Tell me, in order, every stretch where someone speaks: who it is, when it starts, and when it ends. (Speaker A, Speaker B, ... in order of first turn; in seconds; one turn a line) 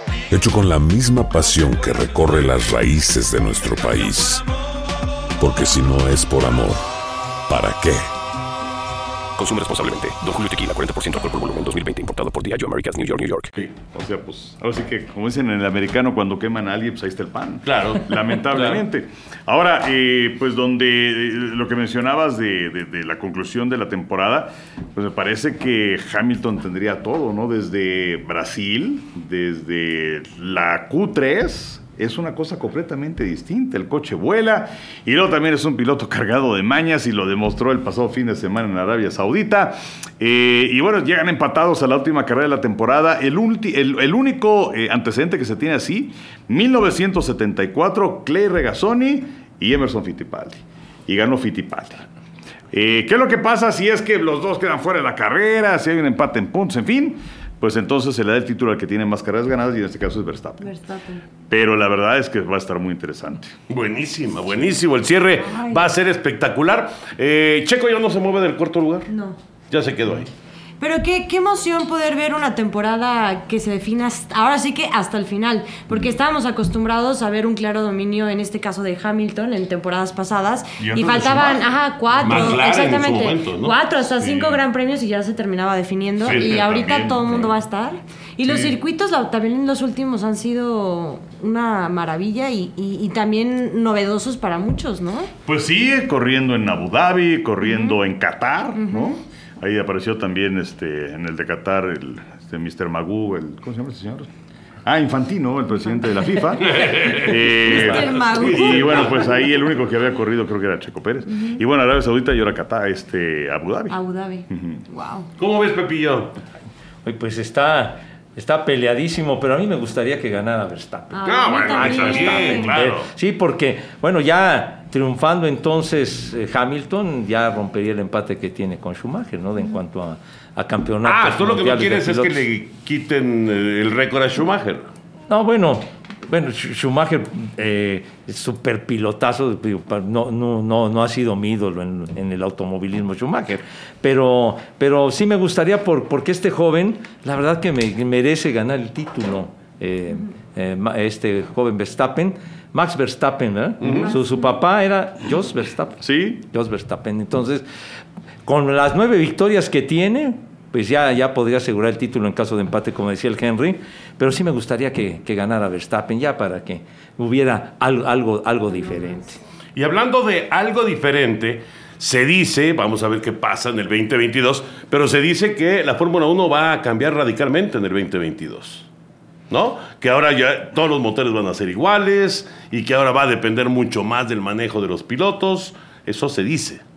Speaker A: 0.3-4.4
Speaker A: 5.4-6.8
Speaker A: 7.5-8.1
Speaker B: 9.4-13.5
Speaker C: 13.6-52.0
Speaker D: 17.6-18.8
Speaker C: 52.7-60.7
Speaker E: 60.6-61.2
Speaker C: 61.5-63.5
Speaker D: 63.7-69.1
Speaker E: 65.4-65.9
Speaker E: 69.1-69.4
Speaker D: 69.7-70.3
Speaker E: 70.8-95.3
Speaker C: 80.8-82.6
Speaker D: 82.2-83.8
Speaker C: 84.2-84.6
Speaker C: 86.2-87.5
Speaker C: 88.4-88.8
Speaker C: 95.5-104.3
Speaker E: 97.6-98.0
Speaker E: 98.8-99.2
Speaker C: 104.8-114.0
Speaker D: 106.6-109.2
Speaker E: 107.6-109.1
Speaker E: 113.9-115.3
Speaker C: 114.5-114.8
Speaker D: 115.4-116.3
Speaker F: 117.0-132.4
Speaker E: 121.1-122.7
Speaker D: 121.2-122.7
Speaker C: 121.7-123.1
Speaker D: 131.0-134.9
Speaker F: 135.3-157.6
Speaker D: 153.8-154.1
Speaker E: 153.9-154.5
Speaker C: 156.0-156.4
Speaker F: 158.4-169.4
Speaker D: 169.7-178.9
Speaker D: 179.5-186.8